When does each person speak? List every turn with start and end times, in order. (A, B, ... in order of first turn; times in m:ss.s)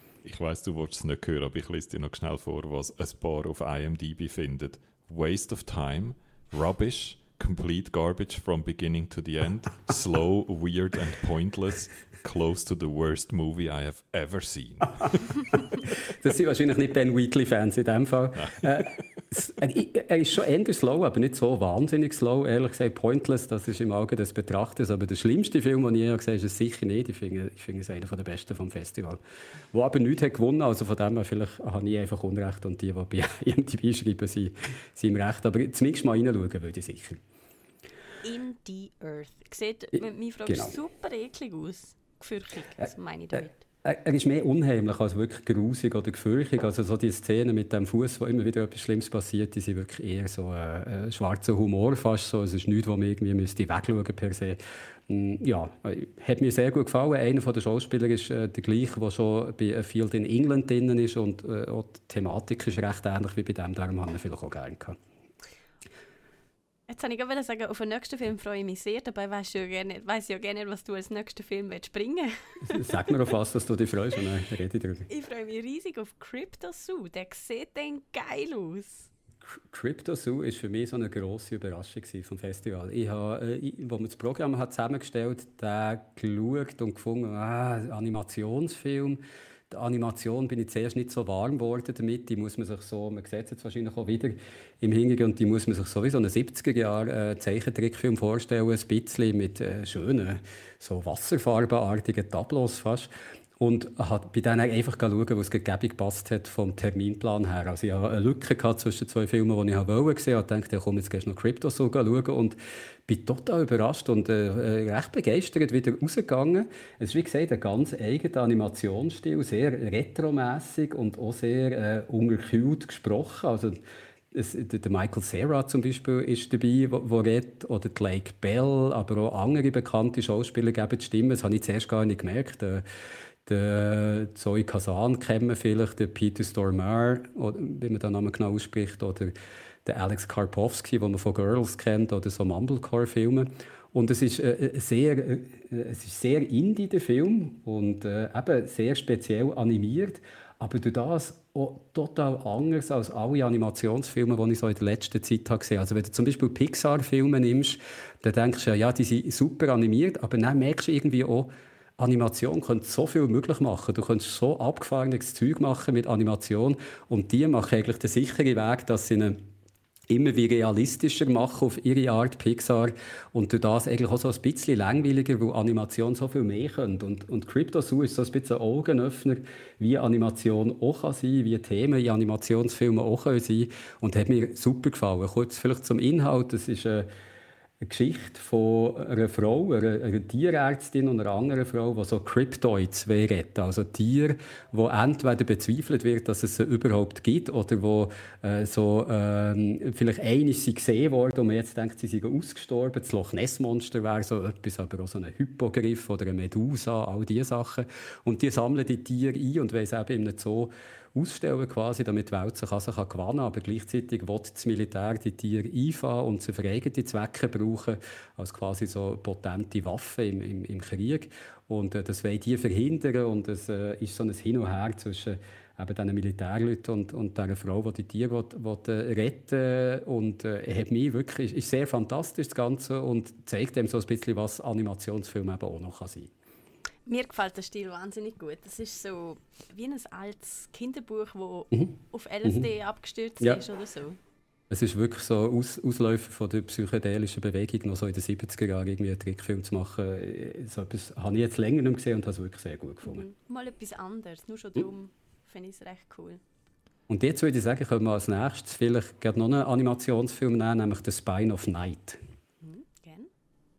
0:00.2-0:15.6 A
0:16.2-0:29.2 B
0:29.7-0:37.2 B
0:38.2-0:43.6 C
0:43.8-1:05.0 B
1:06.9-1:13.0 C
1:12.7-1:15.1 B
1:15.1-1:19.1 C
1:19.7-1:43.1 B
1:43.6-2:03.8 B
2:04.3-2:12.8 B
2:13.4-2:19.3 B
2:19.8-2:49.4 B
2:50.1-3:07.1 B
3:07.8-3:56.3 B
3:57.1-4:04.2 C
4:04.7-4:13.2 B
4:13.0-4:16.4 C
4:17.1-4:22.2 B
4:22.6-4:23.3 C